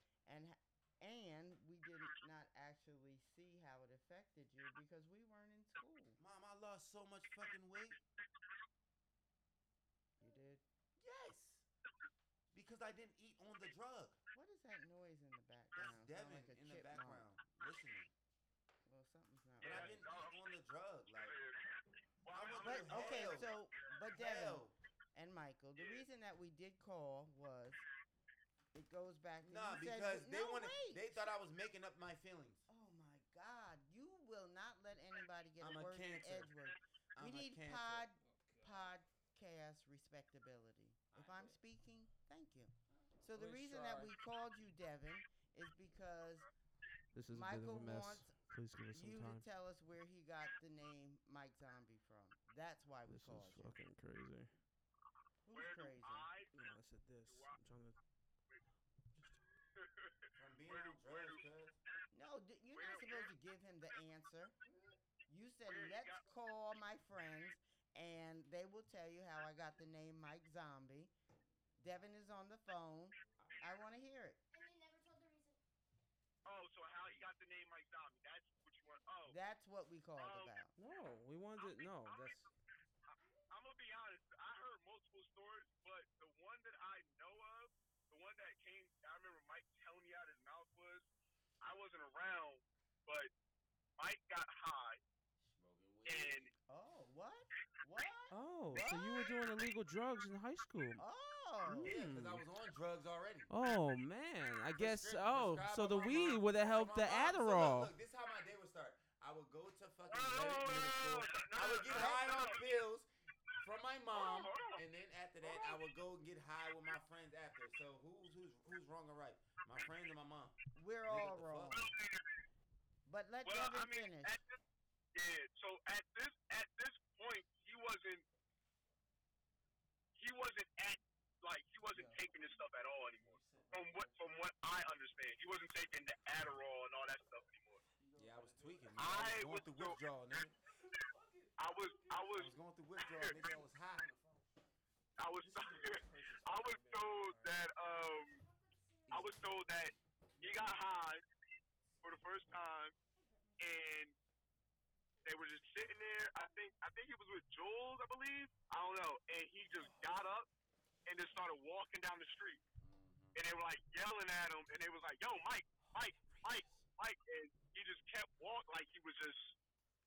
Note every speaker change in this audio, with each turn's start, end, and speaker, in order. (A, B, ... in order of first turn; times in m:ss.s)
0:00.2-0:06.2 A
0:06.2-0:08.0 B
0:10.2-0:10.6 A
0:11.0-0:11.6 B
0:12.5-0:14.2 B
0:14.3-0:17.3 A
0:15.7-0:18.1 B
0:18.8-0:20.0 A
0:19.6-0:20.4 C
0:19.6-0:21.4 B
0:21.1-0:21.6 C
0:22.2-0:23.5 C
0:22.3-0:23.5 B
0:22.6-0:27.8 A
0:24.1-0:24.7 B
0:25.8-0:26.0 C
0:28.7-0:31.4 A
0:29.4-0:32.6 B
0:32.7-0:46.5 A
0:35.6-0:36.5 B
0:37.1-0:38.1 B
0:38.2-0:38.9 D
0:41.1-0:41.6 B
0:43.3-0:44.1 D
0:47.1-0:49.4 D
0:47.3-0:48.3 A
0:48.9-0:53.8 A
0:53.1-0:54.5 D
0:55.4-0:56.3 A
0:55.5-0:56.5 C
0:56.5-0:58.0 D
0:57.2-0:57.6 C
0:59.8-1:00.1 C
1:00.3-1:01.8 B
1:00.7-1:01.4 C
1:02.1-1:04.6 A
1:02.7-1:03.3 C
1:05.3-1:11.1 A
1:05.6-1:06.2 C
1:11.8-1:14.4 A
1:14.5-1:15.6 E
1:16.4-1:19.4 C
1:19.3-1:20.7 A
1:20.2-1:20.5 C
1:20.8-1:22.5 D
1:21.6-1:22.4 C
1:23.1-1:23.6 E
1:23.5-1:31.1 C
1:31.6-1:33.3 C
1:34.0-1:35.0 C
1:35.4-1:36.5 B
1:36.0-1:36.5 C
1:36.7-1:39.3 A
1:38.3-1:41.0 D
1:41.0-1:41.9 A
1:41.7-1:42.4 D
1:41.8-1:43.5 B
1:43.5-1:47.9 D
1:44.8-1:53.1 B
1:50.1-1:52.6 C
1:51.8-1:52.5 A
1:53.6-2:01.8 B
1:54.1-1:54.8 C
1:55.4-1:55.8 C
2:00.7-2:01.9 A
2:01.9-2:02.2 C
2:03.0-2:04.4 A
2:03.4-2:04.6 C
2:05.1-2:08.2 C
2:10.2-2:17.8 C
2:11.9-2:12.2 D
2:13.2-2:14.2 D
2:18.0-2:18.9 D
2:18.2-2:20.5 B
2:19.0-2:20.0 C
2:21.0-2:22.3 D
2:21.6-2:23.4 C
2:22.3-2:24.1 B
2:23.3-2:24.4 D
2:25.2-2:28.4 C
2:25.4-2:27.6 D
2:28.3-2:29.5 E
2:29.1-2:31.2 C
2:32.0-2:32.9 C
2:33.2-2:33.6 E
2:33.6-2:34.1 C
2:35.2-2:40.5 C
2:41.0-2:42.6 C
2:42.8-2:43.4 B
2:43.3-2:49.6 C
2:45.8-2:46.8 D